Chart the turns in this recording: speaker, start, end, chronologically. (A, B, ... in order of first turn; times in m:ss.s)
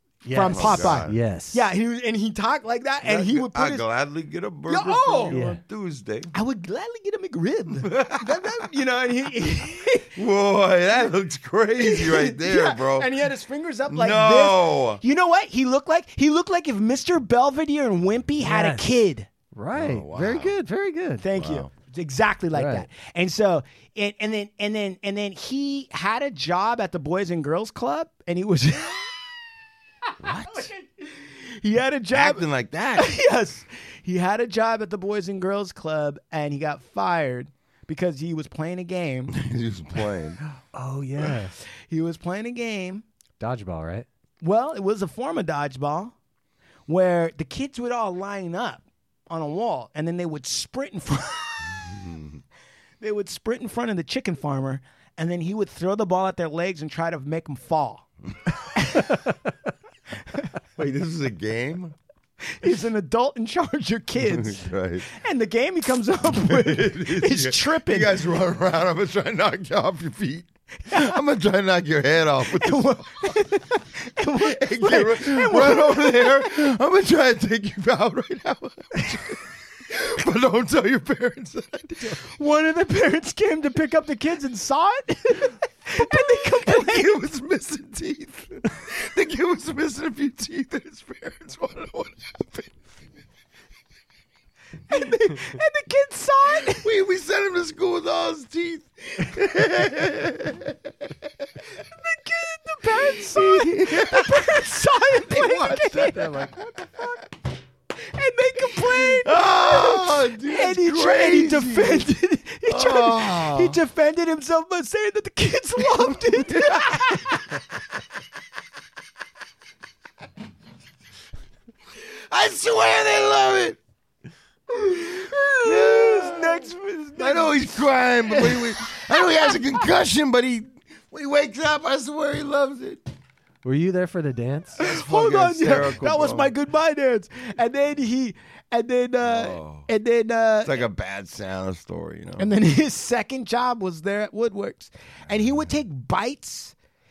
0:00.2-0:01.6 A
0:00.3-0:03.8 B
0:00.4-0:01.2 C
0:03.0-0:06.3 C
0:04.7-0:05.5 B
0:05.3-0:05.6 A
0:06.3-0:10.1 B
0:07.8-0:08.7 C
0:10.1-0:13.3 C
0:11.8-0:19.3 B
0:13.9-0:15.0 C
0:18.4-0:18.9 A
0:19.5-0:21.2 A
0:19.7-0:20.5 C
0:21.2-0:29.1 B
0:21.3-0:21.7 C
0:22.5-0:22.8 A
0:30.2-0:30.7 C
0:30.3-0:39.4 B
0:32.1-0:33.1 C
0:39.3-0:40.4 C
0:40.7-0:41.5 A
0:41.9-0:43.0 B
0:43.4-0:44.0 A
0:44.4-0:46.1 B
0:46.9-0:51.8 B
0:51.8-0:52.4 C
0:53.0-0:58.0 B
0:58.7-0:59.2 B
1:00.8-1:02.0 C
1:02.4-1:08.2 B
1:04.2-1:05.1 C
1:06.3-1:13.3 C
1:12.5-1:16.5 B
1:14.4-1:22.2 C
1:22.1-1:27.2 B
1:26.0-1:32.8 C
1:34.9-1:36.9 B
1:36.6-1:41.3 C
1:42.0-1:46.4 B
1:43.3-1:44.6 C
1:45.2-1:47.1 C
1:45.7-1:46.5 A
1:47.9-1:57.6 B
1:48.9-1:52.1 C
1:52.7-1:53.8 C
1:56.1-1:57.0 C
2:01.9-2:03.8 C
2:04.7-2:07.7 B
2:05.6-2:13.0 C
2:08.3-2:08.7 B
2:13.6-2:14.8 A
2:14.7-2:16.5 C
2:14.8-2:20.8 B
2:19.2-2:19.9 C
2:20.6-2:22.5 C
2:22.4-2:26.7 B